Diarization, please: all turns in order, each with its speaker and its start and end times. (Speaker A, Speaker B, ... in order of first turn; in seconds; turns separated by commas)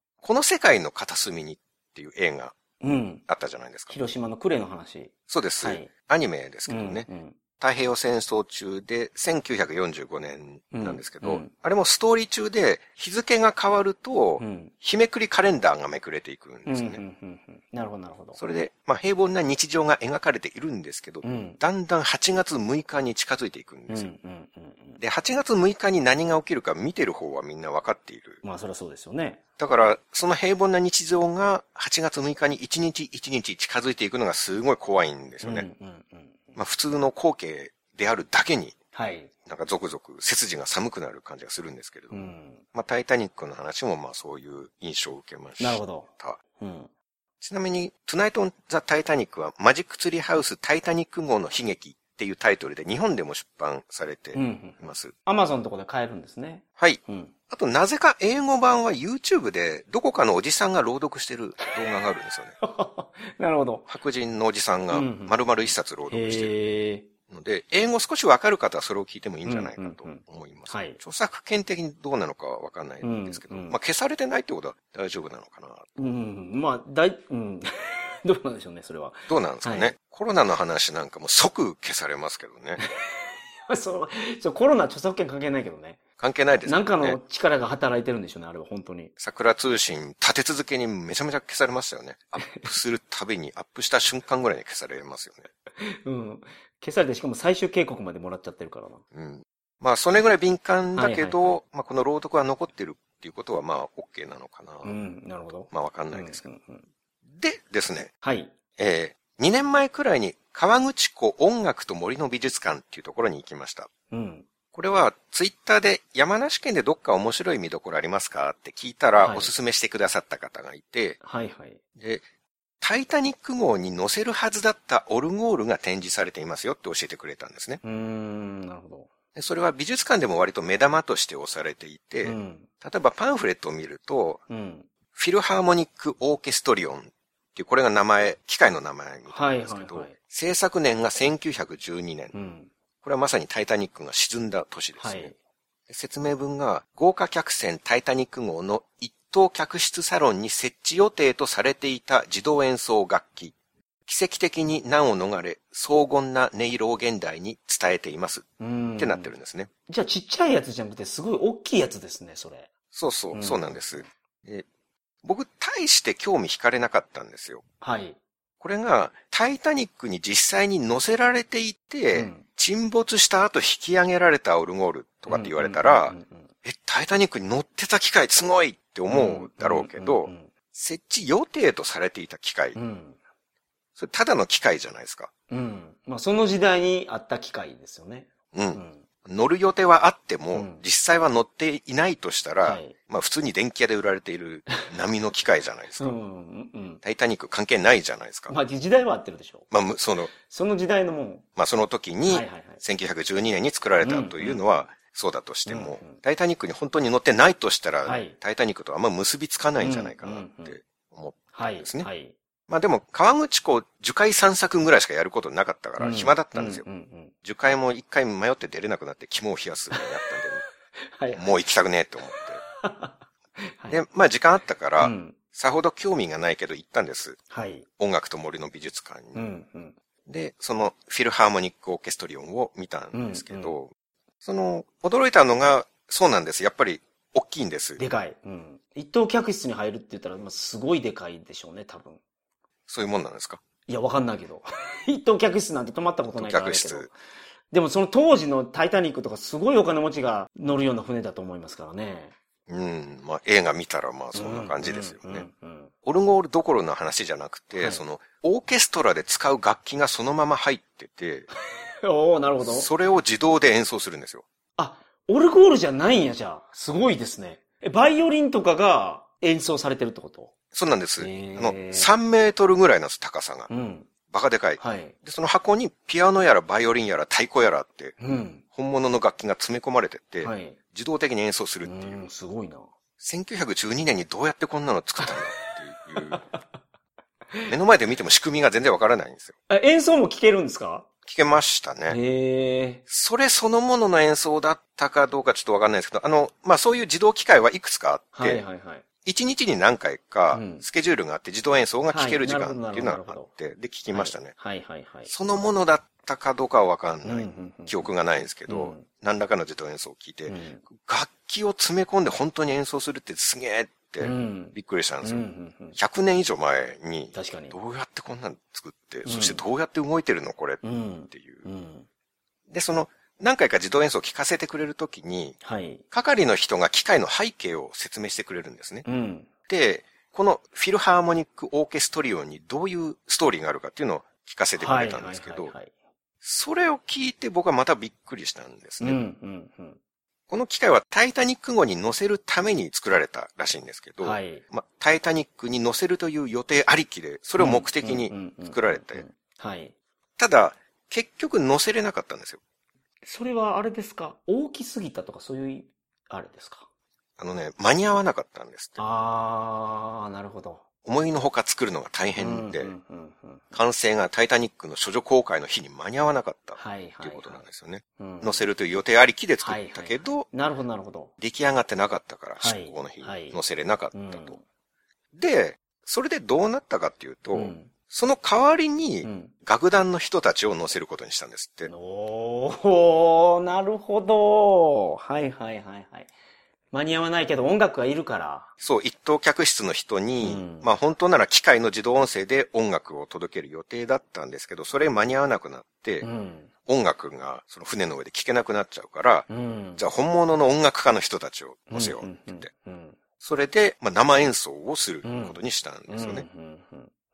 Speaker A: 0.2-2.5, Speaker B: 2.8-3.2, Speaker A: 3.3-4.0, Speaker B: 3.9-5.9, Speaker A: 5.3-7.1, Speaker B: 6.7-7.4, Speaker A: 7.6-17.0, Speaker B: 10.7-11.5, Speaker B: 14.4-14.7, Speaker B: 16.6-18.4, Speaker A: 18.4-24.1, Speaker B: 21.2-21.6, Speaker B: 23.9-25.0, Speaker A: 25.0-28.4, Speaker B: 28.4-29.4, Speaker A: 29.6-35.7, Speaker B: 35.4-36.5, Speaker A: 36.5-38.7, Speaker B: 38.9-39.3, Speaker A: 39.5-46.4, Speaker B: 42.1-42.6, Speaker B: 45.6-46.9, Speaker A: 47.4-55.1, Speaker B: 54.3-57.3, Speaker A: 56.8-62.5, Speaker B: 62.6-63.9, Speaker A: 63.9-66.5, Speaker B: 64.9-65.4, Speaker B: 66.1-67.1, Speaker A: 67.3-75.9, Speaker B: 69.4-71.0, Speaker B: 73.0-73.8, Speaker B: 76.0-79.9, Speaker A: 79.3-82.8, Speaker B: 82.8-86.0, Speaker A: 86.2-87.2, Speaker B: 86.6-89.1, Speaker A: 89.2-95.5, Speaker B: 92.4-92.7, Speaker B: 95.8-99.0, Speaker A: 99.1-104.9, Speaker B: 100.9-101.5, Speaker B: 104.8-106.9, Speaker A: 105.7-106.5, Speaker A: 107.3-108.1, Speaker B: 108.2-108.5, Speaker A: 108.8-113.9, Speaker B: 114.1-114.5, Speaker A: 114.7-121.2, Speaker B: 119.2-119.5, Speaker B: 121.2-121.8, Speaker A: 122.0-122.2, Speaker A: 122.8-127.8, Speaker B: 127.8-129.1, Speaker A: 129.3-134.4, Speaker B: 132.2-132.7, Speaker B: 134.5-134.9, Speaker A: 135.1-142.3, Speaker B: 139.3-140.1, Speaker B: 142.3-142.7, Speaker A: 143.0-145.3, Speaker B: 145.0-145.3, Speaker A: 145.9-153.5, Speaker A: 154.1-158.4, Speaker B: 158.6-159.3, Speaker A: 159.0-159.7, Speaker B: 159.9-162.7, Speaker A: 162.9-164.7, Speaker B: 163.3-164.1, Speaker A: 165.2-167.6, Speaker B: 167.8-168.2, Speaker A: 168.6-182.8, Speaker B: 172.1-172.4, Speaker B: 175.3-176.5, Speaker B: 179.1-180.5, Speaker B: 182.7-183.2, Speaker A: 184.0-185.3, Speaker B: 185.5-189.0, Speaker A: 188.5-196.2, Speaker B: 190.5-190.8, Speaker B: 192.6-192.9, Speaker B: 196.0-197.0, Speaker A: 197.0-198.5, Speaker B: 198.5-199.7, Speaker A: 199.7-200.3, Speaker B: 200.3-201.4, Speaker A: 201.6-212.1, Speaker B: 202.3-202.8, Speaker B: 204.0-204.7, Speaker B: 205.7-206.2, Speaker B: 208.0-208.3, Speaker B: 209.8-210.8, Speaker B: 211.5-212.3, Speaker A: 212.7-216.8, Speaker B: 216.0-217.3, Speaker A: 217.4-220.6, Speaker B: 219.9-220.2, Speaker B: 221.1-221.5, Speaker A: 221.3-222.6, Speaker B: 222.3-224.0, Speaker A: 223.9-227.4, Speaker B: 225.0-225.4, Speaker B: 227.5-227.9, Speaker A: 228.0-229.4, Speaker B: 229.3-229.9, Speaker A: 230.2-233.9, Speaker B: 233.1-233.8, Speaker A: 234.4-238.0, Speaker B: 238.0-242.2, Speaker A: 242.9-243.6, Speaker B: 243.9-247.1, Speaker A: 246.3-247.1, Speaker B: 247.7-252.3, Speaker A: 252.7-255.5, Speaker B: 254.3-255.9, Speaker A: 256.0-261.5, Speaker B: 257.8-258.0, Speaker B: 261.7-262.9, Speaker A: 262.6-264.4, Speaker B: 264.8-270.5, Speaker A: 270.7-273.7, Speaker B: 271.2-272.1, Speaker B: 273.7-274.1, Speaker A: 274.3-278.1, Speaker B: 274.8-275.1, Speaker B: 278.2-278.6, Speaker A: 278.7-282.3, Speaker B: 280.4-280.8, Speaker B: 281.8-282.9, Speaker A: 283.2-286.4, Speaker B: 285.2-285.6, Speaker B: 286.1-286.6, Speaker A: 287.7-289.5, Speaker B: 289.7-291.1, Speaker A: 291.2-292.2, Speaker B: 292.1-293.0, Speaker A: 293.1-298.6, Speaker B: 298.3-299.0, Speaker A: 299.2-304.5, Speaker B: 300.5-300.9, Speaker B: 302.1-303.5, Speaker B: 304.1-305.3, Speaker A: 305.2-321.6, Speaker B: 307.2-308.1, Speaker B: 308.7-309.1, Speaker B: 310.5-310.9, Speaker B: 314.2-316.0, Speaker B: 317.3-317.8, Speaker B: 319.2-319.6, Speaker B: 320.8-322.1, Speaker A: 322.7-325.6, Speaker B: 325.6-326.0, Speaker A: 326.1-329.0, Speaker B: 329.0-329.5, Speaker A: 329.7-335.7, Speaker B: 334.8-335.9, Speaker A: 336.4-339.2, Speaker B: 339.0-340.0, Speaker A: 340.5-349.2, Speaker B: 344.2-344.6, Speaker B: 347.6-349.9, Speaker A: 350.4-352.6, Speaker B: 353.2-356.9, Speaker A: 357.4-359.0, Speaker B: 359.0-360.8, Speaker A: 361.0-362.9, Speaker B: 362.4-363.8, Speaker A: 363.7-370.5, Speaker B: 366.7-367.6, Speaker B: 368.2-368.7, Speaker B: 369.6-371.3, Speaker A: 371.4-374.6, Speaker B: 372.6-374.6, Speaker A: 375.3-381.9, Speaker B: 377.5-377.9, Speaker B: 379.2-379.5, Speaker B: 381.9-386.3, Speaker B: 386.9-388.7, Speaker A: 388.8-396.3, Speaker B: 390.4-390.9, Speaker B: 396.2-396.7, Speaker A: 396.9-402.7, Speaker B: 399.5-400.0, Speaker B: 401.9-403.2, Speaker A: 403.4-406.4, Speaker B: 405.2-407.1